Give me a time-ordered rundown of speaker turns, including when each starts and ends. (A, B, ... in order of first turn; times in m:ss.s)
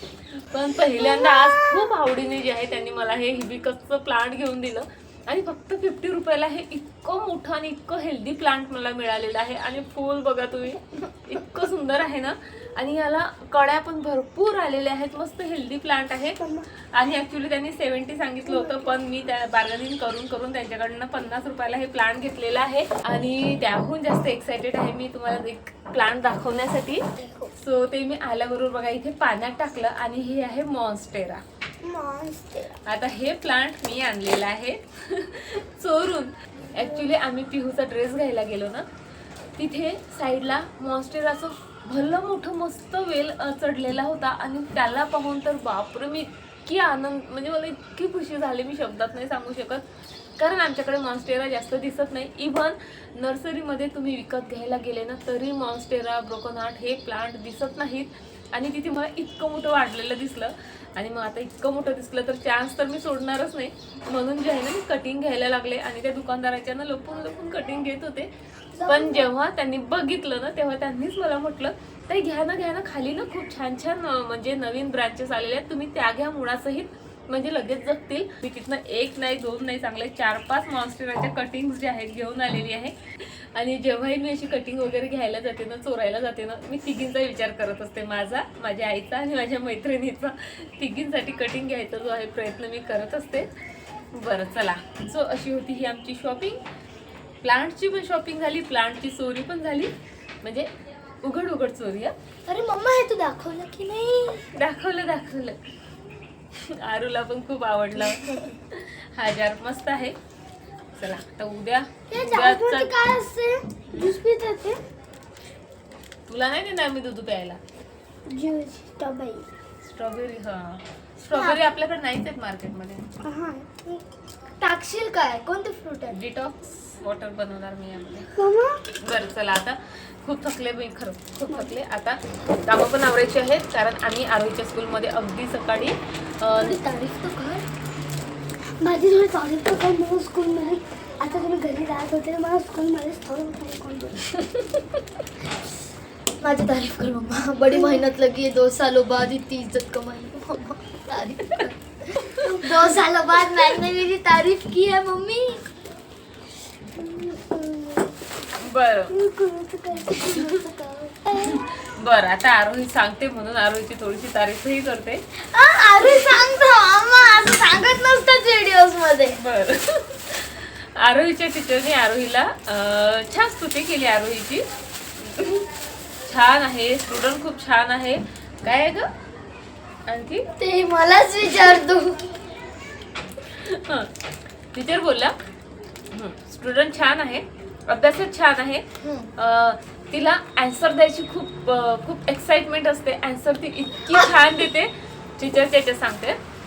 0:00.3-0:27.0 A
0:27.2-0:27.5 B
0:27.6-0:31.4 A
0:31.8-0:32.8 B
0:32.8-0:38.9 A
0:39.6-0:49.8 A
0:50.4-1:33.5 A
1:08.8-1:09.3 B
1:34.2-1:36.6 A
1:37.4-1:39.9 A
1:40.4-1:40.7 A
1:41.2-1:42.1 A
1:42.5-1:44.5 B
1:44.5-1:45.6 A
1:46.6-1:50.2 A
1:48.1-1:48.4 B
1:51.0-1:53.0 A
1:52.1-1:54.8 B
1:56.3-1:57.6 A
1:58.3-1:59.5 B
1:59.8-2:03.1 A
2:01.3-2:01.6 B
2:03.2-2:04.0 B
2:04.6-2:06.2 B
2:06.1-2:08.3 A
2:08.4-2:08.8 B
2:09.0-2:16.8 A
2:16.6-2:17.7 B
2:18.8-2:24.4 B
2:26.4-2:35.7 B
2:32.2-2:32.7 A
2:37.0-2:38.2 B
2:38.6-2:39.2 A
2:39.1-2:41.6 B
2:41.4-2:45.2 A
2:45.5-2:49.4 B
2:49.4-2:54.6 A
2:55.2-2:55.7 A
2:56.3-2:59.1 A
3:00.1-3:00.5 A
3:00.6-3:02.3 B
3:03.6-3:04.1 A
3:04.7-3:05.4 A
3:06.1-3:16.4 A
3:09.0-3:09.3 B